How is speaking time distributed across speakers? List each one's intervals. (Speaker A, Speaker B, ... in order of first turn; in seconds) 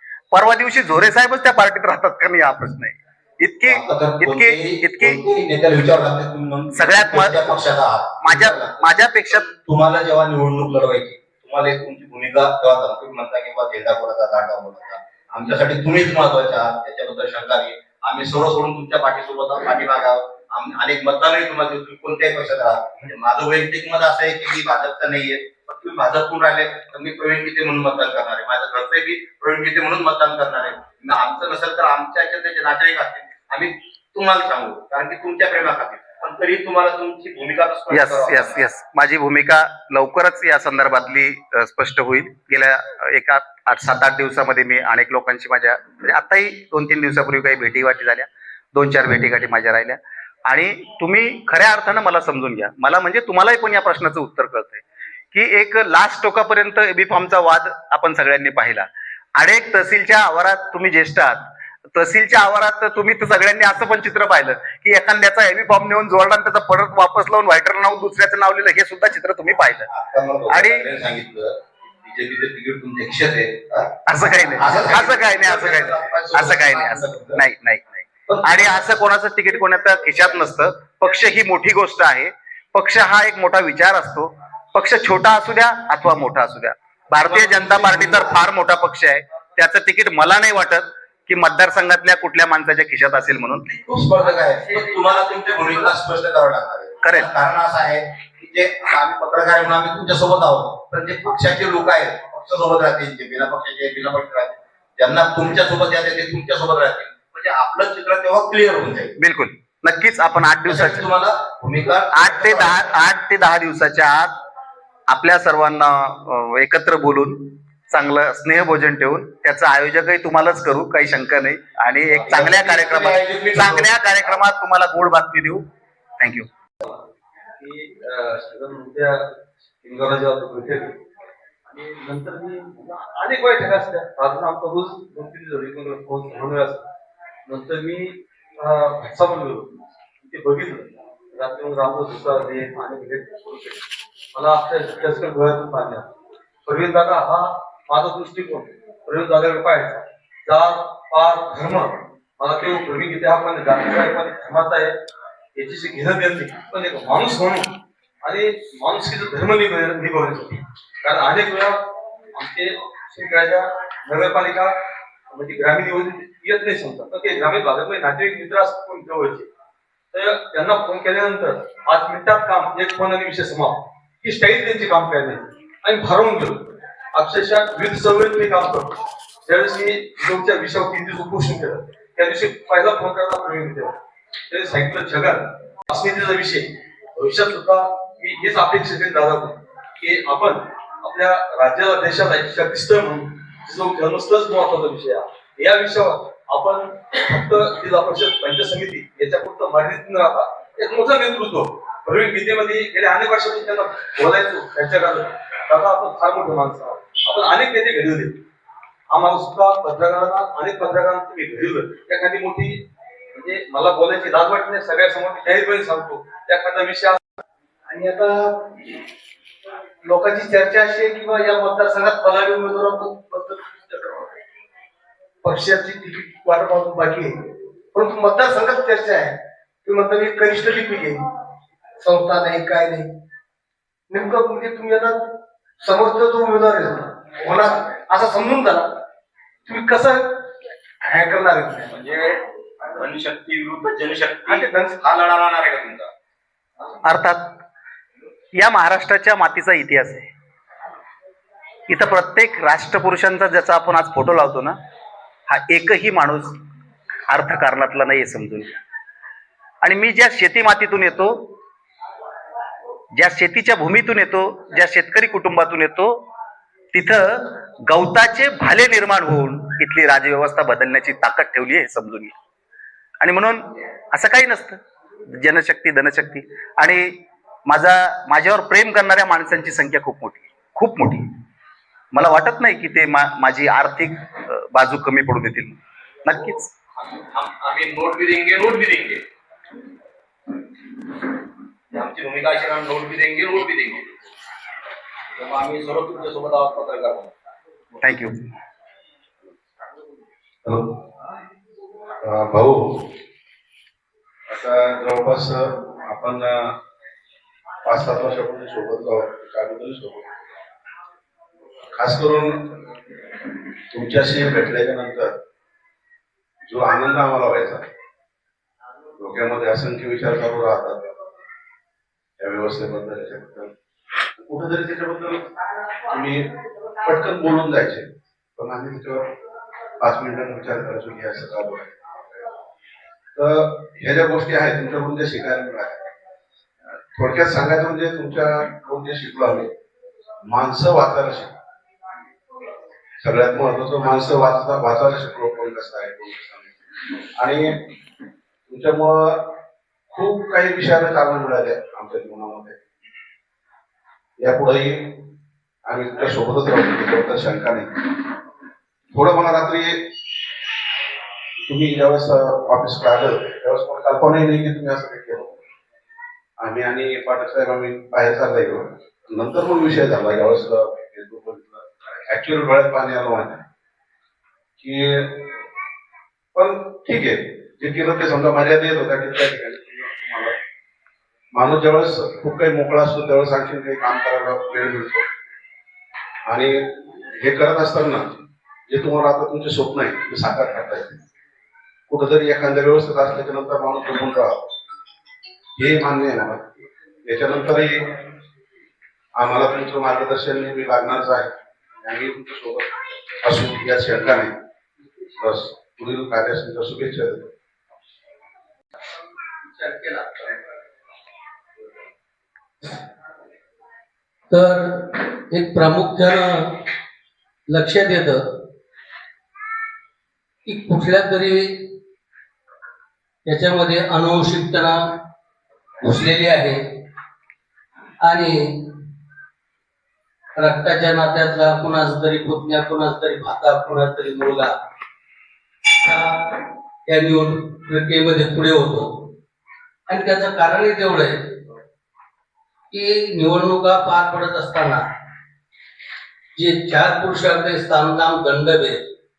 Speaker A: 0.3-5.2, 6.8-7.5, 8.2-9.5, 37.9-69.9, 70.5-70.9, 74.1-93.8, 97.0-97.3, 109.2-111.0, 112.1-114.4, 115.1-125.7, 126.2-126.5, 247.0-247.6, 248.6-250.3, 251.9-254.8, 255.5-256.6, 257.3-258.8, 259.8-261.5, 263.1-266.2, 266.9-272.4, 273.2-281.4, 282.1-286.7, 298.0-298.4
Speaker B: 3.7-38.6, 69.9-77.4, 78.3-78.9, 87.2-88.4, 93.8-109.1, 110.7-112.9, 122.1-124.0, 241.9-246.1, 287.1-289.2, 291.9-294.1, 295.4-297.3
Speaker C: 127.6-131.0, 131.7-136.8, 137.5-146.1, 146.7-155.0, 155.6-161.8, 162.3-164.8, 165.3-169.5, 170.1-183.9, 184.5-208.4, 209.1-212.8, 213.3-217.2
Speaker D: 217.9-218.9, 220.0-224.4, 225.4-227.4, 227.9-231.2, 232.0-233.1, 234.1-235.3, 235.8-239.0, 239.7-240.4, 241.0-241.9, 244.5-245.0
Speaker E: 300.6-301.0, 302.2-303.1, 304.5-306.7, 307.9-310.3, 311.9-312.8, 313.9-315.3, 316.7-317.9, 319.2-321.1, 322.4-323.7, 324.4-325.5, 326.1-329.3, 330.0-332.1, 333.4-336.1, 337.1-339.7, 340.4-341.5, 343.2-346.7, 347.4-347.8, 348.7-349.5, 350.1-352.8, 354.4-355.2, 355.9-357.9, 359.1-360.1, 361.6-365.5, 366.6-373.6, 374.8-375.4, 376.6-380.6, 381.5-385.2, 386.5-388.4, 388.9-391.2, 392.1-394.6, 395.8-396.7, 397.3-398.2, 399.4-401.5, 402.0-404.5, 405.4-407.5
Speaker F: 409.7-410.5, 414.5-416.8, 417.7-418.4, 420.7-421.9, 423.5-425.2, 426.0-427.0, 428.2-429.0, 430.6-434.8, 436.0-439.3, 440.1-441.6, 442.9-445.0, 446.6-449.0